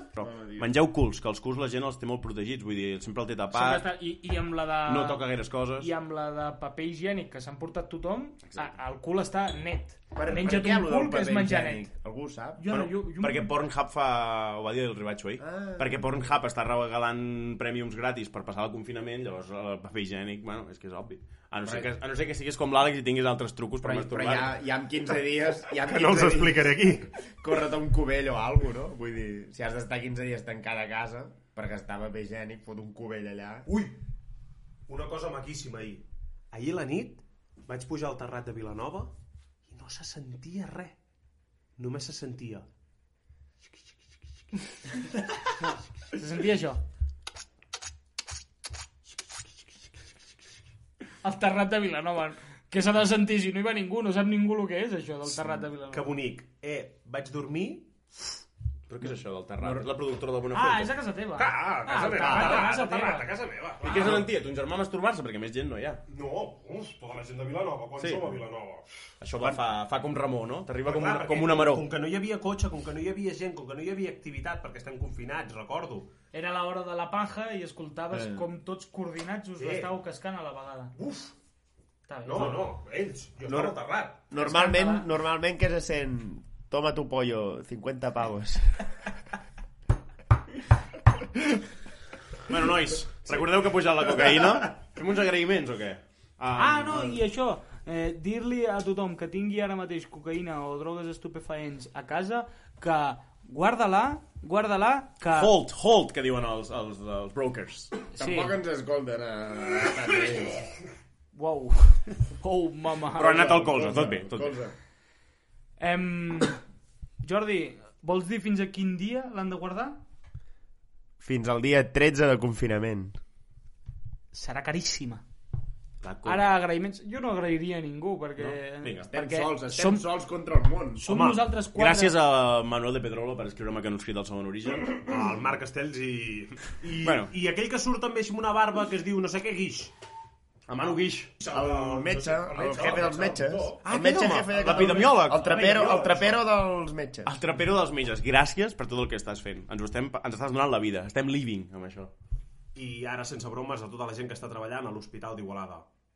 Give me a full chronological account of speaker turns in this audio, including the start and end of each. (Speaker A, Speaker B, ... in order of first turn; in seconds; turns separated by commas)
Speaker A: 0.1-3.9, Speaker B: 0.2-0.7, Speaker C: 3.5-11.9, Speaker A: 4.9-5.9, Speaker A: 8.5-8.7, Speaker B: 10.2-12.6, Speaker C: 12.6-13.5, Speaker A: 12.7-24.5, Speaker B: 15.4-16.0, Speaker B: 23.8-33.7, Speaker D: 25.8-27.1, Speaker D: 33.7-34.0, Speaker D: 34.9-39.1, Speaker D: 39.7-41.0, Speaker D: 41.8-42.7, Speaker C: 46.1-46.8, Speaker C: 51.2-56.1, Speaker D: 55.9-57.9, Speaker A: 58.9-60.9, Speaker C: 60.5-63.3, Speaker D: 61.4-64.3, Speaker A: 63.8-66.0, Speaker D: 66.1-68.9, Speaker A: 68.0-68.4, Speaker A: 69.2-71.9, Speaker D: 70.8-76.1, Speaker C: 76.3-81.0, Speaker D: 79.6-79.9, Speaker D: 81.0-81.3, Speaker C: 82.1-82.5, Speaker D: 82.2-84.2, Speaker B: 83.5-88.8, Speaker C: 84.3-85.1, Speaker A: 92.5-97.2, Speaker C: 96.6-105.5, Speaker A: 105.3-108.0, Speaker C: 108.1-108.6, Speaker B: 108.2-110.7, Speaker C: 111.3-113.6, Speaker A: 113.2-114.6, Speaker B: 113.2-114.8, Speaker C: 115.8-116.6, Speaker C: 117.2-120.0, Speaker B: 121.2-123.2, Speaker C: 124.3-125.2, Speaker A: 126.0-126.5, Speaker C: 126.2-130.1, Speaker A: 128.4-129.1, Speaker B: 129.1-131.0, Speaker C: 131.0-132.2, Speaker D: 131.1-131.4, Speaker A: 131.8-135.0, Speaker D: 134.9-139.9, Speaker A: 137.0-137.3, Speaker A: 140.7-141.3, Speaker D: 141.4-146.4, Speaker B: 141.5-147.3, Speaker A: 144.5-146.0, Speaker A: 147.2-152.1, Speaker D: 152.8-155.9